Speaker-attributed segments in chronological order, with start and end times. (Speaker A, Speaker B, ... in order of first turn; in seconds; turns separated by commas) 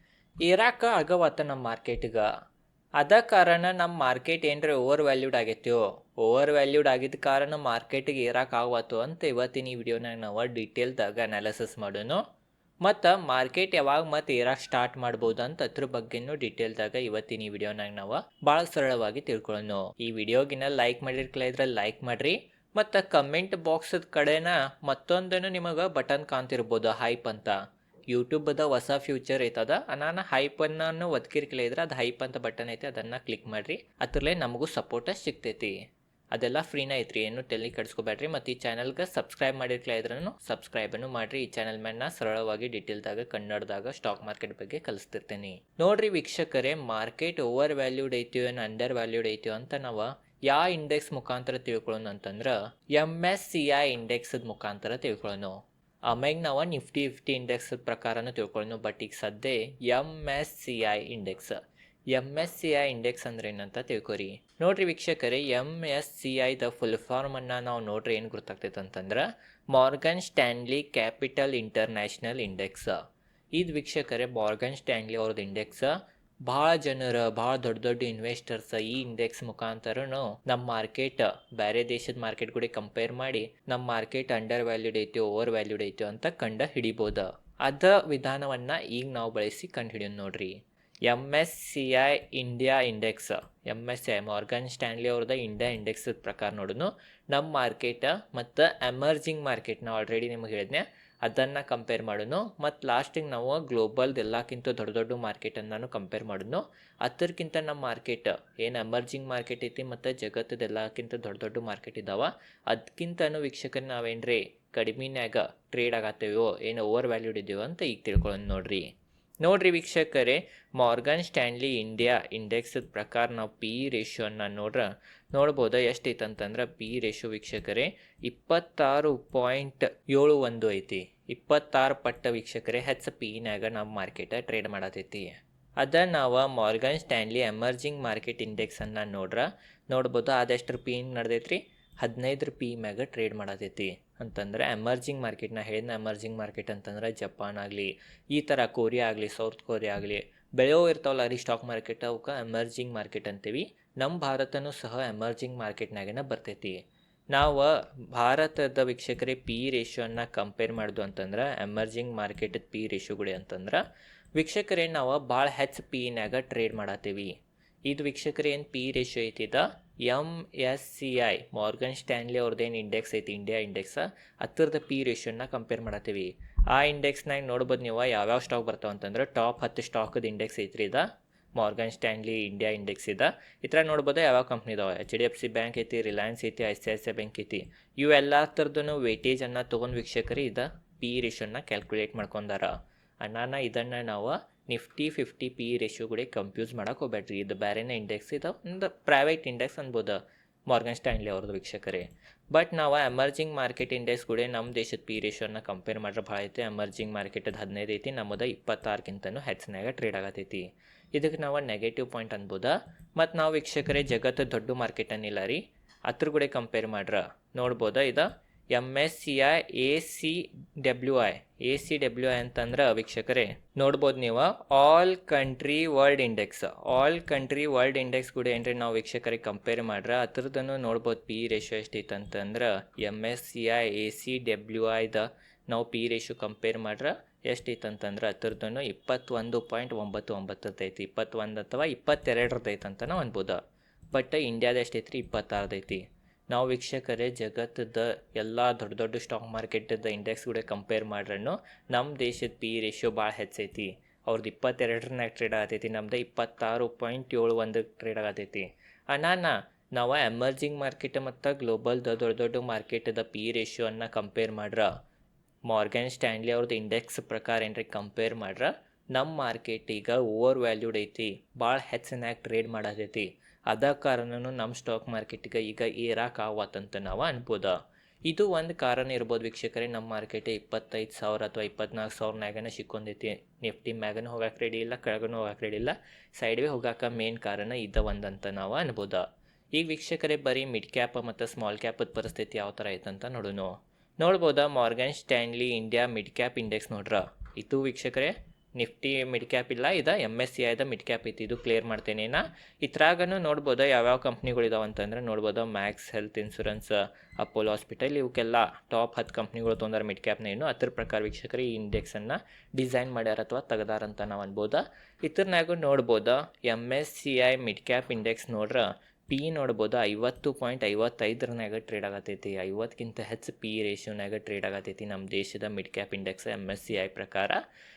Speaker A: 0.4-2.3, Speaker A: 3.0-12.2, Speaker A: 12.8-27.6, Speaker A: 28.1-35.8, Speaker A: 36.3-61.6, Speaker A: 62.1-73.0, Speaker A: 73.5-118.9, Speaker A: 119.4-156.8, Speaker A: 157.3-163.8, Speaker A: 164.3-167.3, Speaker A: 167.8-243.6, Speaker A: 244.1-264.9, Speaker A: 265.6-277.7, Speaker A: 278.2-327.6